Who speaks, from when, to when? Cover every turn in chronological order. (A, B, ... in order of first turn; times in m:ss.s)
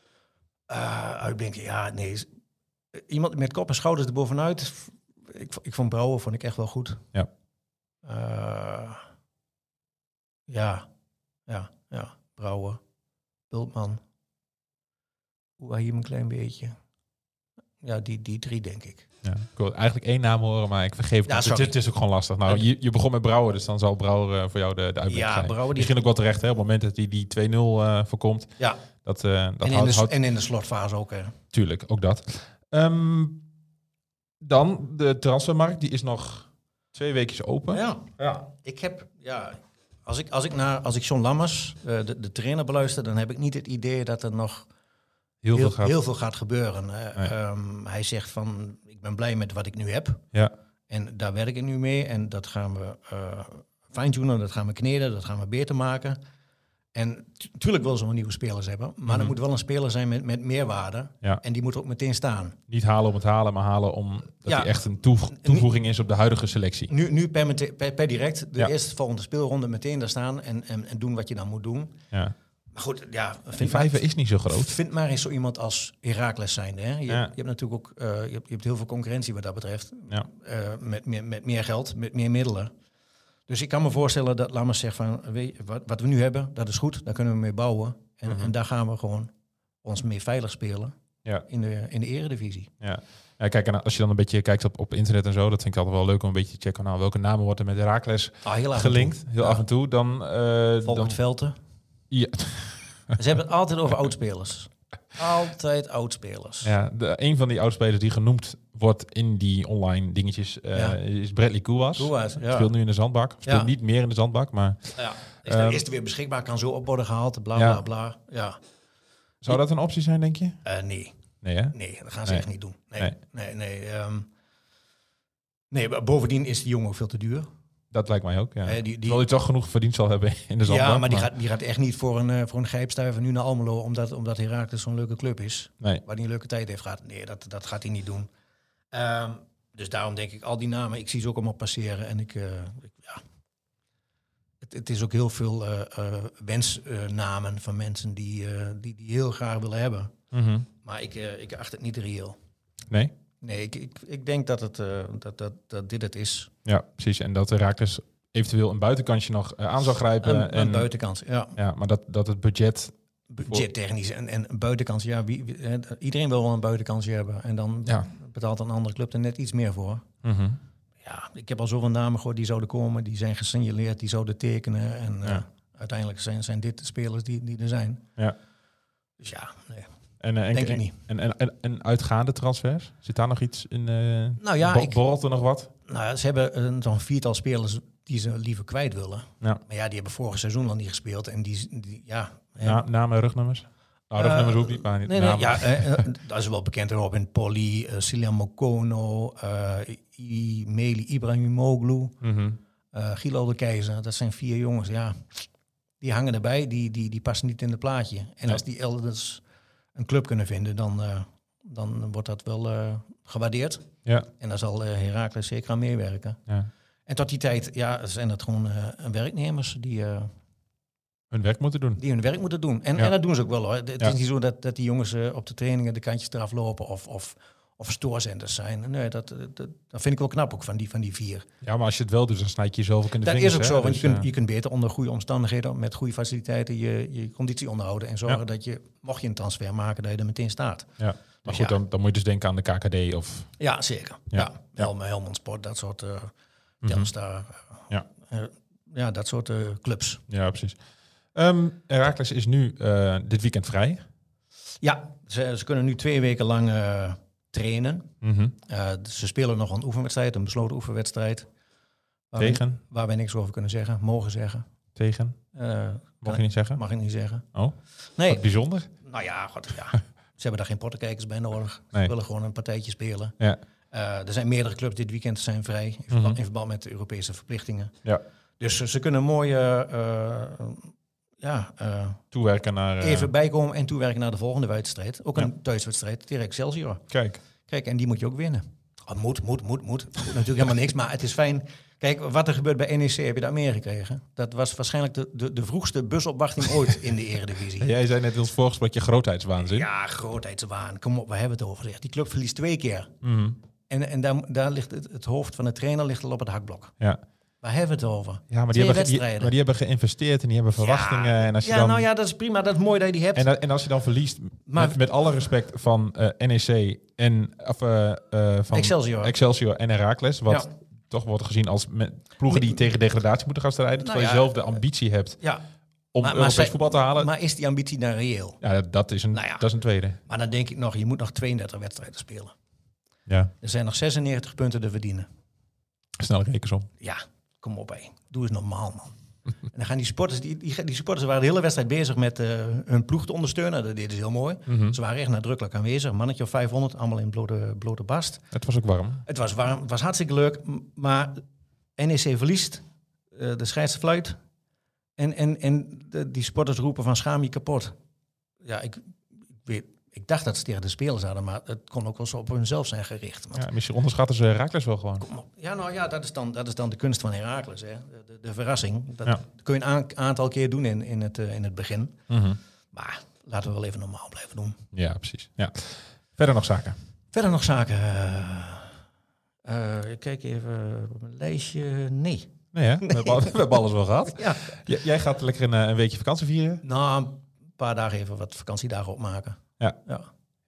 0:00.7-0:02.3 A
0:02.9-0:07.1 A
0:08.0-0:09.0 A
0:10.5-0:10.9 A
0:11.5-0:12.8 A
0:13.5-0:14.0 A
0:15.6-0:16.8 A
0:17.8-0:19.1 A
0:19.2-0:28.5 B
0:21.2-0:21.8 A
0:25.1-0:26.1 A
0:29.0-0:30.1 B
0:29.6-0:31.4 A
0:31.5-0:33.4 B
0:34.4-0:38.4 B
0:37.7-0:44.7 A
0:45.4-0:46.0 B
0:45.5-0:50.2 A
0:50.9-0:56.2 A
0:56.9-1:02.6 A
0:59.1-0:59.3 B
1:02.7-1:06.9 B
1:04.4-1:04.8 A
1:05.3-1:05.7 A
1:06.9-1:11.9 A
1:12.7-1:22.7 A
1:13.6-1:14.7 B
1:23.5-1:29.3 A
1:28.2-1:28.5 B
1:29.8-1:32.7 A
1:32.8-1:41.2 B
1:38.4-1:39.6 A
1:40.8-1:41.6 A
1:42.1-1:43.2 B
1:43.2-1:46.7 A
1:46.6-1:55.8 B
1:50.7-1:51.0 A
1:52.0-1:52.7 A
1:53.4-1:53.7 A
1:55.0-1:58.6 A
1:57.5-1:57.8 B
1:59.4-2:00.6 B
2:00.6-2:04.3 A
2:01.4-2:02.4 B
2:05.7-2:07.5 A
2:07.9-2:11.3 B
2:08.6-2:09.2 A
2:10.6-2:18.3 A
2:18.9-2:23.2 A
2:24.6-2:30.1 A
2:30.3-2:30.7 B
2:30.8-2:32.4 A
2:33.4-2:36.5 A
2:36.6-2:40.9 B
2:40.2-2:41.5 A
2:41.5-2:43.6 B
2:43.3-2:50.0 A
2:50.2-2:50.6 B
2:51.0-2:58.0 A
2:59.2-2:59.9 A
3:00.2-3:05.7 B
3:00.5-3:01.0 A
3:04.4-3:05.0 A
3:05.8-3:12.8 A
3:12.6-3:16.0 B
3:14.2-3:22.2 A
3:22.2-3:22.6 B
3:22.9-3:25.4 A
3:26.0-3:36.4 A
3:37.0-3:40.3 A
3:41.3-3:42.0 B
3:42.0-3:51.4 A
3:51.6-3:54.3 B
3:53.2-4:00.9 A
4:01.0-4:03.7 B
4:01.4-4:01.8 A
4:03.6-4:10.2 A
4:04.3-4:04.9 B
4:06.8-4:07.1 B
4:10.3-4:14.0 B
4:14.8-4:18.1 A
4:18.2-4:18.5 B
4:18.6-4:21.5 A
4:22.3-4:24.7 A
4:22.4-4:22.8 B
4:25.0-4:25.4 B
4:25.5-4:27.5 A
4:26.2-4:26.8 B
4:27.5-4:28.9 B
4:28.1-4:28.4 A
4:29.0-4:33.3 A
4:33.9-4:38.0 A
4:36.1-4:36.4 B
4:38.6-4:42.2 A
4:42.3-4:43.3 B
4:43.0-4:47.0 A
4:47.1-4:47.4 B
4:47.6-4:57.9 A
4:57.8-4:59.9 B
4:59.6-5:03.1 A
5:03.2-5:03.6 B
5:03.9-5:06.9 A
5:07.6-5:09.5 A
5:08.5-5:12.0 B
5:10.8-5:13.5 A
5:13.3-5:25.5 B
5:14.7-5:15.0 A
5:18.7-5:19.3 A
5:22.4-5:22.8 A
5:24.0-5:24.8 A
5:26.1-5:27.3 B
5:26.2-5:28.6 A
5:28.6-5:30.2 B
5:29.3-5:29.7 A
5:30.2-5:32.5 A
5:33.3-5:33.5 B
5:33.6-5:35.3 A
5:36.2-5:36.9 B
5:37.0-5:48.5 A
5:44.7-5:45.0 B
5:48.5-5:49.2 B
5:49.2-5:51.4 A
5:52.0-5:54.4 A
5:55.2-5:58.0 A
5:58.6-6:03.6 A
6:03.5-6:05.2 B
6:05.2-6:12.2 A
6:12.3-6:12.6 B
6:12.9-6:14.8 A
6:14.9-6:17.0 B
6:17.3-6:19.0 A
6:19.6-6:23.5 A
6:22.7-6:26.8 B
6:24.3-6:24.8 A
6:26.8-6:30.3 A